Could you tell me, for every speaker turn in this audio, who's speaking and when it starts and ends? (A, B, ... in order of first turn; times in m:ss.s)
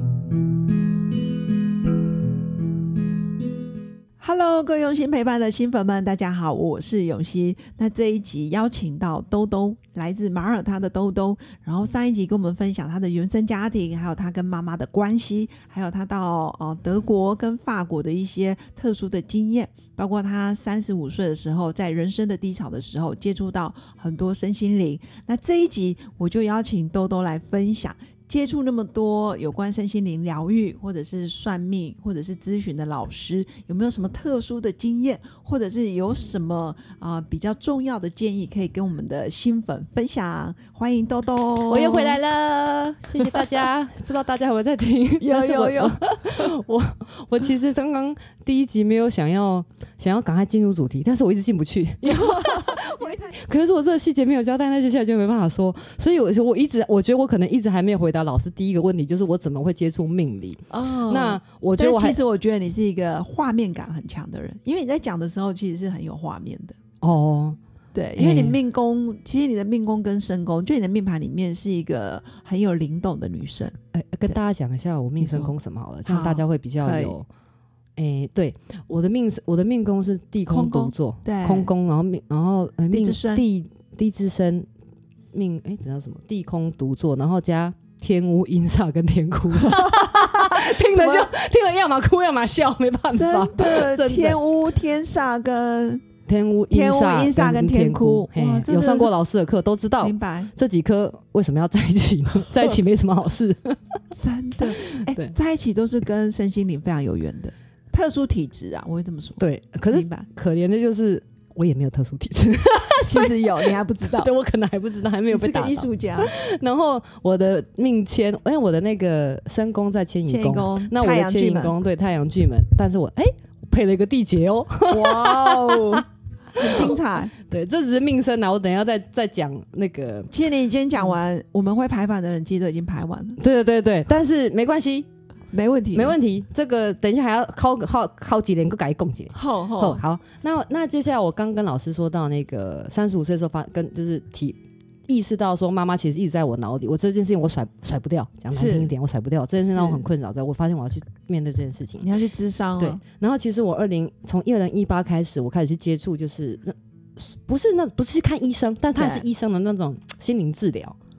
0:04.2-0:42.2 A
0:41.7-1:02.2 B
0:45.2-0:46.4 A
0:52.0-0:53.4 A
1:00.7-1:06.8 A
1:07.0-1:07.6 B
1:07.9-1:13.8 A
1:08.2-1:08.6 B
1:13.9-1:17.3 B
1:15.2-1:17.1 A
1:18.0-1:24.7 B
1:20.5-1:21.7 A
1:22.9-1:23.4 A
1:25.3-1:34.4 B
1:29.6-1:31.3 A
1:33.1-1:36.0 A
1:36.2-1:44.0 B
1:36.7-1:39.1 A
1:40.0-1:40.5 A
1:44.1-1:50.3 A
1:44.9-1:45.3 B
1:49.4-2:06.0 B
1:53.0-1:54.3 A
1:55.3-1:56.3 A
2:00.2-2:01.7 A
2:04.9-2:07.3 A
2:06.6-2:10.3 B
2:10.3-2:13.4 A
2:13.4-2:15.1 B
2:15.5-2:16.2 A
2:15.9-2:32.0 B
2:19.3-2:20.0 A
2:28.5-2:28.9 A
2:29.7-2:30.0 A
2:32.0-2:33.0 A
2:32.8-2:41.0 B
2:38.9-2:39.2 A